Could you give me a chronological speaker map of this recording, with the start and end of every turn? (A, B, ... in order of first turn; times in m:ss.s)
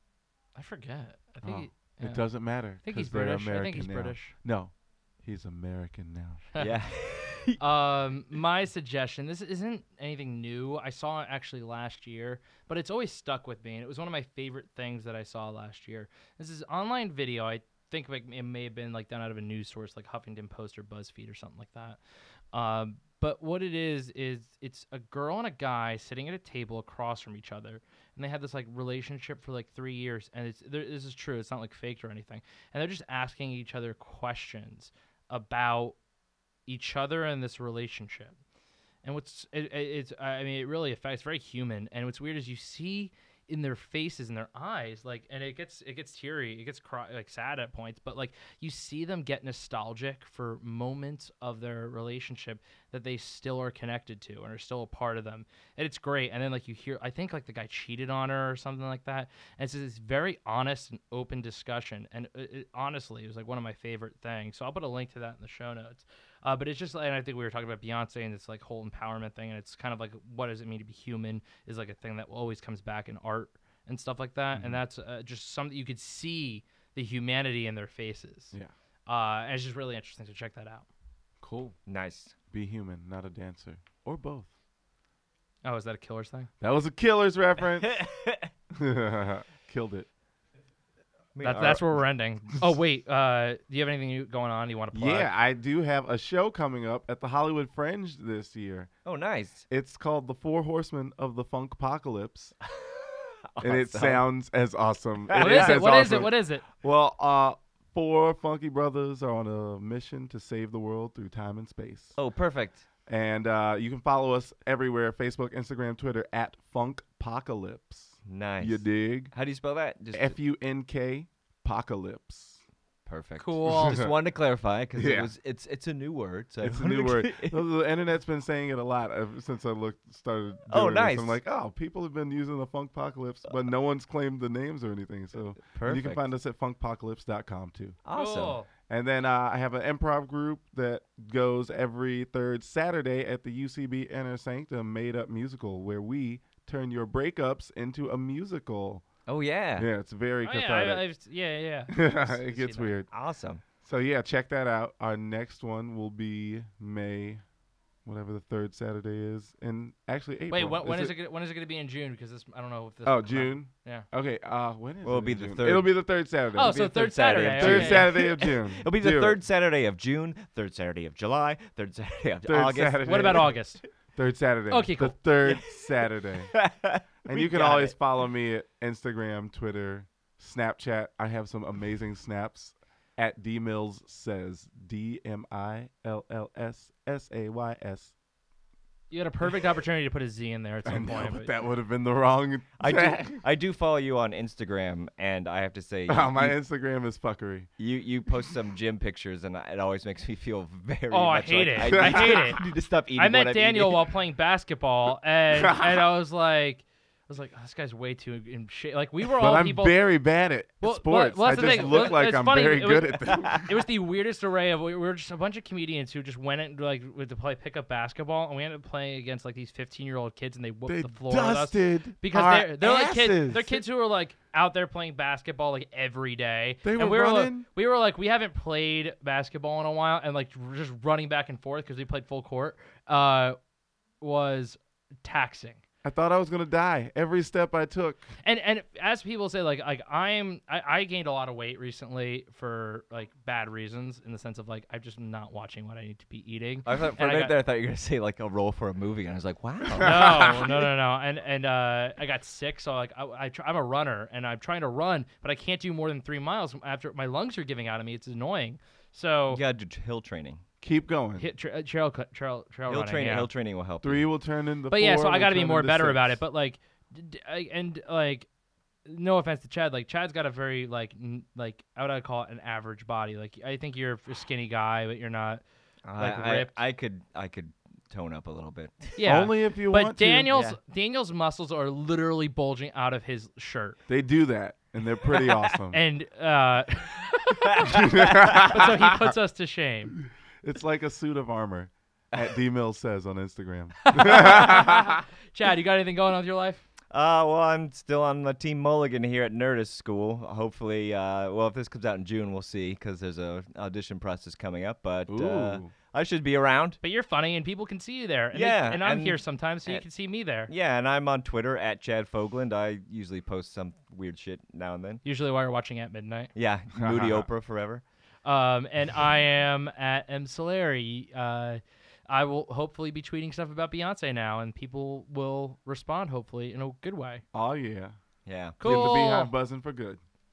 0:00.6-0:02.2 A
0:01.4-0:06.4 B
0:02.8-0:04.3 A
0:06.6-0:07.6 C
0:07.6-0:22.0 A
0:22.5-0:36.0 A
0:36.7-0:38.4 A
0:39.0-1:18.6 A
1:14.6-1:14.8 B
1:19.1-1:20.9 A
1:21.4-1:21.8 B
1:21.9-1:22.3 C
1:22.5-1:24.5 B
1:25.6-1:26.5 A
1:26.6-1:28.0 B
1:27.8-1:28.5 C
1:28.7-1:30.1 B
1:31.4-1:31.8 C
1:31.4-1:35.3 A
1:31.5-1:31.8 B
1:34.9-1:38.9 B
1:39.0-1:39.7 C
1:39.7-1:42.6 B
1:42.7-1:44.2 C
1:43.6-1:52.2 B
1:45.3-1:46.3 C
1:45.4-1:46.6 A
1:52.2-1:52.8 C
1:53.1-1:59.3 B
1:58.3-2:00.4 C
2:00.1-2:02.6 B
2:03.1-2:07.6 C
2:03.4-2:04.0 A
2:03.7-2:04.1 B
2:05.0-2:05.3 B
2:06.6-2:18.0 B
2:10.7-2:11.4 C
2:15.6-2:16.3 C
2:18.0-2:18.6 C
2:18.1-2:18.7 A
2:18.9-2:29.0 B
2:29.3-2:29.9 C
2:29.8-2:31.0 B
2:30.4-2:32.9 A
2:31.9-2:33.1 B
2:33.1-2:33.6 C
2:33.8-2:37.4 B
2:38.0-2:41.1 B
2:40.5-2:44.1 A
2:43.0-2:49.4 B
2:45.0-2:46.0 C
2:46.6-2:48.1 A
2:46.8-2:53.8 C
2:52.4-2:53.6 B
2:53.0-2:53.8 A
2:54.2-2:56.5 B
2:54.7-2:55.2 A
2:55.4-2:58.0 C
2:57.3-3:08.1 B
3:09.1-3:11.5 A
3:10.8-3:13.4 B
3:12.8-3:16.6 C
3:16.1-3:17.7 B
3:17.8-3:24.0 C
3:21.1-3:22.6 A
3:21.8-3:22.5 B
3:23.2-3:30.0 A
3:25.5-3:26.1 B
3:29.3-3:33.8 B
3:30.8-3:53.6 A
3:31.6-3:32.2 C
3:33.3-3:33.6 C
3:40.9-3:43.8 B
3:46.8-3:47.7 B
3:54.2-3:55.8 A
3:56.0-3:58.3 B
3:58.4-4:07.6 A
4:06.8-4:10.7 C
4:10.0-4:10.7 B
4:10.0-4:19.6 A
4:19.5-4:20.6 C
4:20.8-4:21.5 B
4:21.4-4:23.5 A
4:22.9-4:24.2 C
4:24.0-4:26.4 B
4:24.9-4:28.5 A
4:29.0-4:35.6 A
4:36.1-4:39.2 C
4:36.2-4:36.8 A
4:39.2-4:44.0 A
4:39.2-4:40.5 B
4:40.5-4:40.8 C
4:44.1-4:46.0 B
4:45.9-4:50.2 A
4:47.6-4:48.9 C
4:47.9-4:49.3 B
4:50.6-4:55.2 B
4:54.0-4:56.8 A
4:57.1-5:07.0 C
5:05.3-5:05.9 B
5:07.0-5:10.7 A
5:08.5-5:10.0 C
5:10.7-5:15.2 C
5:15.2-5:16.5 A
5:16.6-5:18.0 C
5:17.0-5:17.5 B
5:18.4-5:27.4 A
5:27.5-5:28.2 B
5:28.5-5:29.1 C
5:28.8-5:29.5 A
5:28.8-5:30.2 B